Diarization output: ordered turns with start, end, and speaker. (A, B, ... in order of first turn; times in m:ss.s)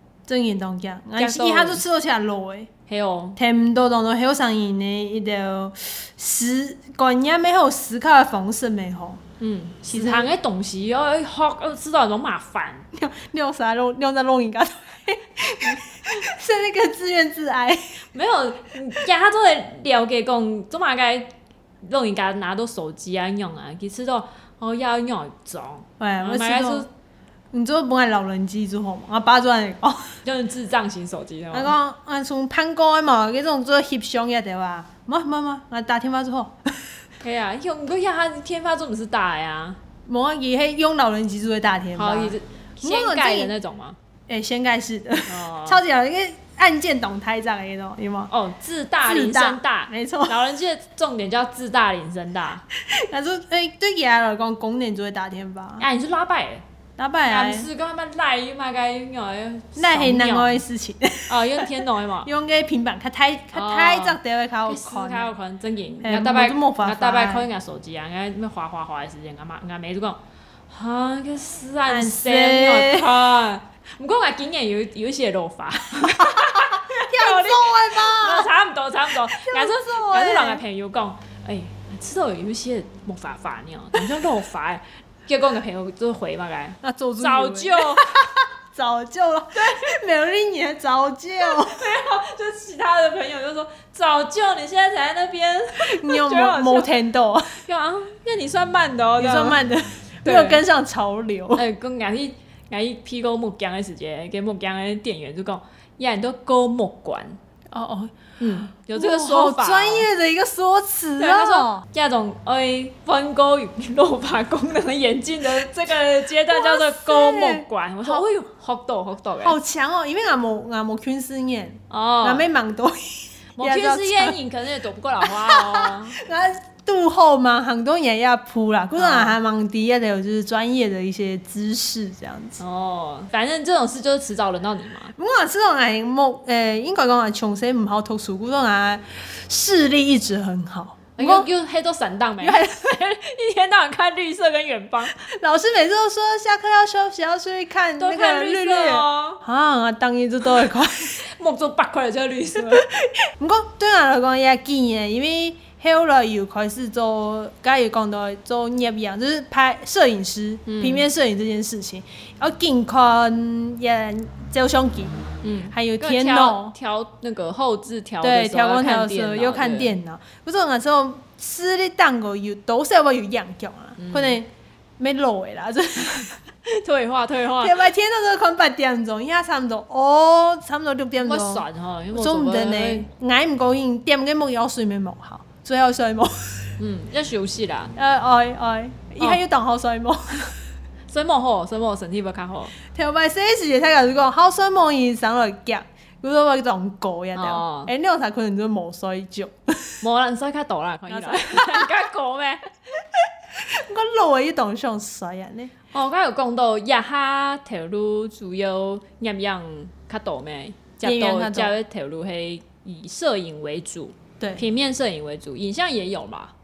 0:00.3-0:02.7 A
0:01.2-0:01.8 B
0:02.9-0:03.4 B
0:03.4-0:09.2 A
0:09.4-0:12.9 B
0:09.9-0:10.3 A
0:12.9-0:18.0 A
0:18.1-0:26.9 B
0:26.0-0:26.9 A
0:27.5-0:30.2 A
0:30.2-0:31.7 B
0:31.5-0:36.9 A
0:37.2-0:39.8 B
0:40.1-0:43.5 A
0:42.0-0:44.0 B
0:44.3-0:48.3 A
0:45.3-0:45.8 B
0:48.3-0:52.6 B
0:49.0-0:50.4 A
0:52.8-0:55.8 A
0:55.8-0:56.6 B
0:57.0-0:57.7 A
0:57.3-1:00.6 B
0:59.8-1:05.3 A
1:01.3-1:02.3 B
1:03.5-1:28.1 B
1:06.0-1:07.5 A
1:11.9-1:13.1 A
1:16.1-1:18.5 A
1:19.3-1:20.6 A
1:26.8-1:31.9 A
1:31.4-1:36.9 B
1:35.8-1:37.6 A
1:37.6-1:39.6 B
1:39.2-1:41.6 A
1:40.2-1:40.6 B
1:41.5-1:47.4 B
1:47.7-1:48.2 A
1:48.4-1:50.1 B
1:48.7-1:51.8 A
1:51.2-1:59.6 B
1:56.5-1:58.2 A
1:59.4-2:04.4 A
2:01.9-2:02.4 B
2:03.6-2:06.2 B
2:05.2-2:12.6 A
2:09.0-2:09.4 B
2:12.6-2:15.2 B
2:15.2-2:21.5 A
2:21.2-2:25.2 B
2:22.4-2:22.9 A
2:25.2-2:31.2 A
2:28.0-2:29.4 B
2:31.2-2:32.8 B
2:32.6-2:46.8 A
2:40.7-2:41.0 B
2:45.4-2:50.0 B
2:48.2-2:56.4 A
2:54.0-2:54.4 B
2:56.6-2:57.8 B
2:57.6-3:06.7 A
3:01.2-3:03.1 B
3:06.8-3:07.9 B
3:08.0-3:10.6 A
3:11.1-3:12.8 B
3:12.9-3:20.0 A
3:17.4-3:17.9 B
3:20.0-3:22.7 B
3:21.1-3:22.0 A
3:23.2-3:25.7 A
3:25.9-3:36.5 B
3:31.0-3:31.7 A